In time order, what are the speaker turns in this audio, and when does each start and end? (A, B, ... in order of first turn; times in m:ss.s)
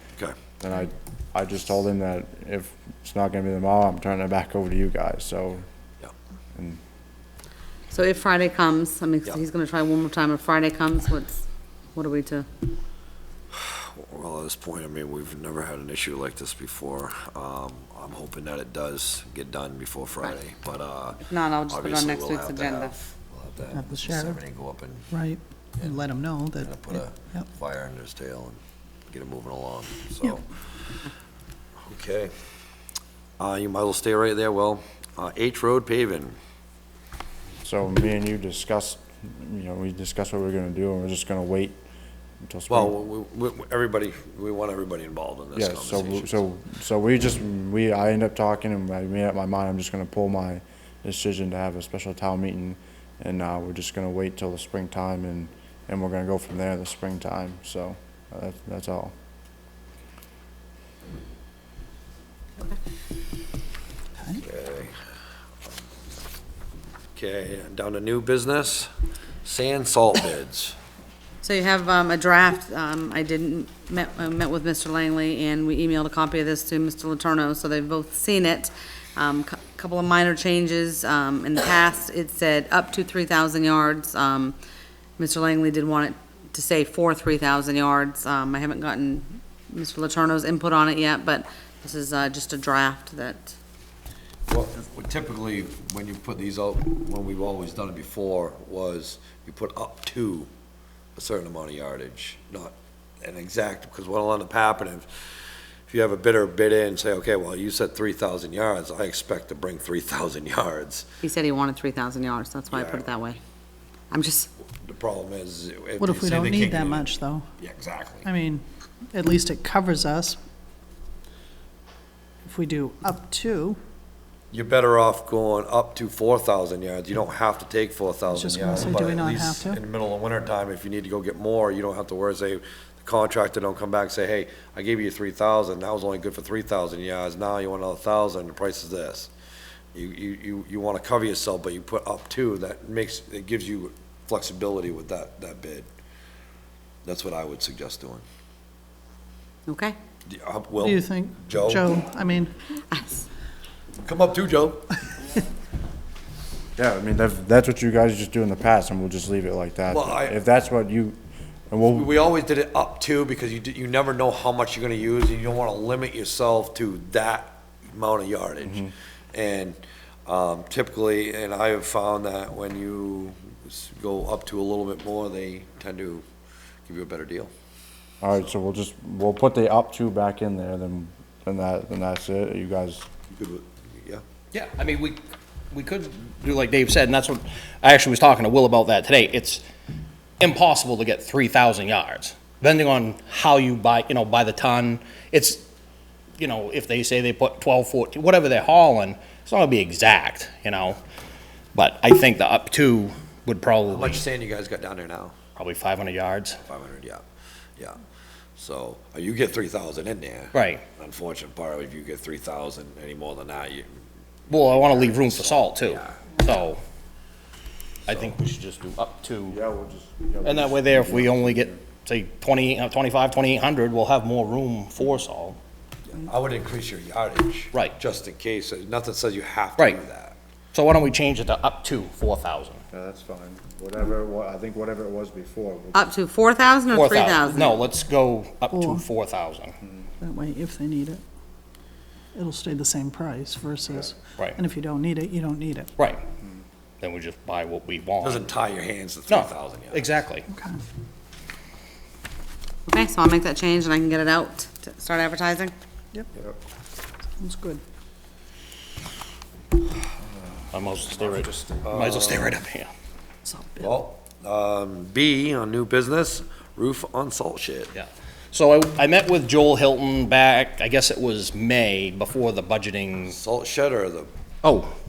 0:00.6-0:05.7 A
0:06.6-0:06.8 A
0:07.9-0:11.4 B
0:12.0-0:12.5 B
0:13.5-0:25.1 C
0:21.2-0:22.9 B
0:23.7-0:24.4 D
0:25.1-0:27.4 D
0:26.6-0:28.6 C
0:29.1-0:30.6 C
0:31.8-0:32.3 C
0:33.4-0:36.4 C
0:37.6-0:41.8 A
0:42.4-0:42.9 A
0:42.7-0:46.4 C
0:45.6-0:59.1 A
1:04.4-1:04.9 C
1:07.2-1:08.9 C
1:09.4-1:10.8 C
1:11.4-1:24.6 B
1:25.2-1:33.6 B
1:34.5-1:40.5 C
1:41.2-1:45.1 C
1:45.9-1:51.1 C
1:51.2-1:53.4 B
1:52.7-1:53.1 C
1:54.1-1:54.5 B
1:54.8-1:58.3 C
1:56.0-1:57.5 D
1:58.2-2:00.4 D
2:02.4-2:03.8 D
2:04.5-2:19.3 C
2:08.3-2:09.8 D
2:19.9-2:25.9 C
2:27.0-2:28.2 C
2:29.7-2:30.0 B
2:30.3-2:31.9 C
2:30.8-2:32.5 D
2:32.7-2:33.3 B
2:34.0-2:34.9 C
2:36.8-2:41.2 A
2:39.9-2:40.4 C
2:41.7-2:42.1 A
2:41.9-2:56.2 C
2:48.7-2:48.9 A
2:56.9-2:57.5 C
2:58.2-3:03.1 A
3:03.3-3:04.2 C
3:04.5-3:05.2 E
3:05.7-3:09.6 E
3:10.4-3:15.6 E
3:16.4-3:21.0 E
3:21.8-3:24.2 E
3:23.9-3:25.3 C
3:25.6-3:26.6 E
3:26.6-3:27.2 C
3:28.6-3:33.9 C
3:30.5-3:30.8 E
3:34.5-3:36.8 E
3:34.7-3:36.2 C
3:38.1-3:38.3 C
3:38.1-3:39.6 E
3:39.5-3:41.8 A
3:40.4-3:45.6 E
3:46.1-3:50.4 C
3:50.7-3:52.8 E
3:52.9-3:56.1 A
3:55.9-3:57.6 B
3:56.9-3:59.8 E
3:58.7-3:59.1 D
4:00.2-4:01.2 D
4:02.4-4:06.0 D
4:07.0-4:08.4 E
4:08.2-4:10.1 C
4:09.3-4:10.5 E
4:10.5-4:10.8 D
4:12.9-4:15.7 B
4:17.4-4:17.8 D
4:20.7-4:22.9 E
4:21.2-4:21.8 A
4:21.8-4:22.6 C
4:23.4-4:24.0 D
4:23.8-4:27.9 C
4:27.9-4:33.4 E
4:33.2-4:34.3 C
4:34.6-4:34.9 E